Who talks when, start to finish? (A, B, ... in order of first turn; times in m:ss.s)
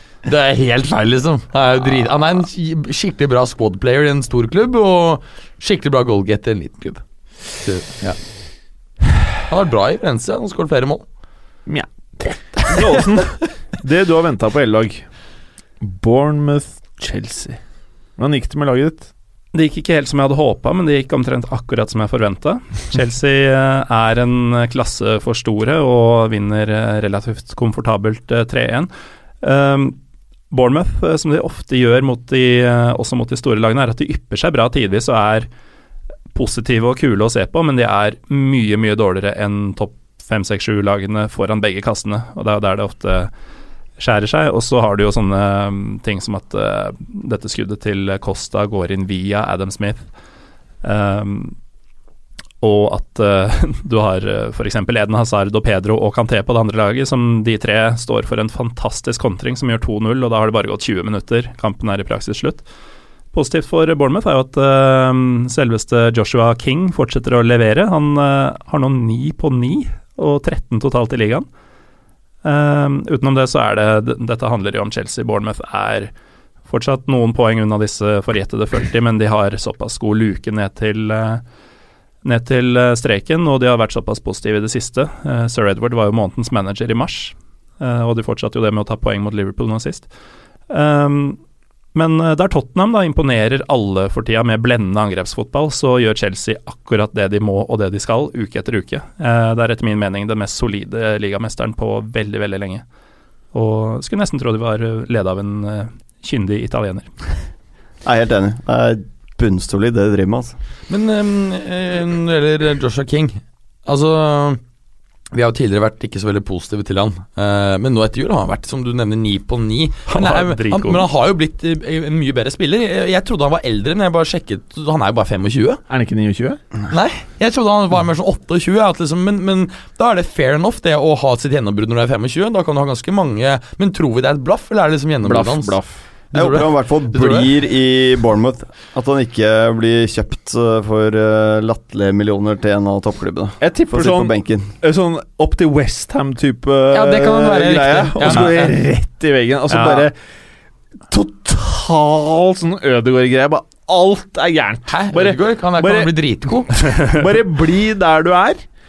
0:00.2-0:08.3 A
0:09.5-0:11.0 A
0:11.7-0:15.1 B
0:15.8-0:17.6 B
0:18.2-0:19.1 B
0:19.5-0:28.9 C
0:29.4-0:30.0 C
0:30.5-0:35.5 C
0:36.3-0:43.3 C
0:44.0-0:50.0 C
0:50.8-0:51.6 C
0:52.6-1:02.6 C
1:03.3-1:11.5 C
1:12.4-1:16.1 C
1:16.7-1:21.4 C
1:22.2-1:30.1 C
1:30.7-1:31.4 C
1:32.0-1:42.8 C
1:43.5-1:47.1 C
1:48.0-1:50.6 D
1:50.9-1:54.6 A
1:55.3-2:05.8 A
2:00.1-2:01.1 C
2:05.9-2:06.6 B
2:06.9-2:15.8 A
2:15.2-2:16.0 B
2:16.3-2:17.5 A
2:16.3-2:24.7 D
2:23.6-2:30.1 B
2:26.9-2:28.8 A
2:29.7-2:30.1 C
2:31.1-2:38.6 B
2:34.9-2:36.9 A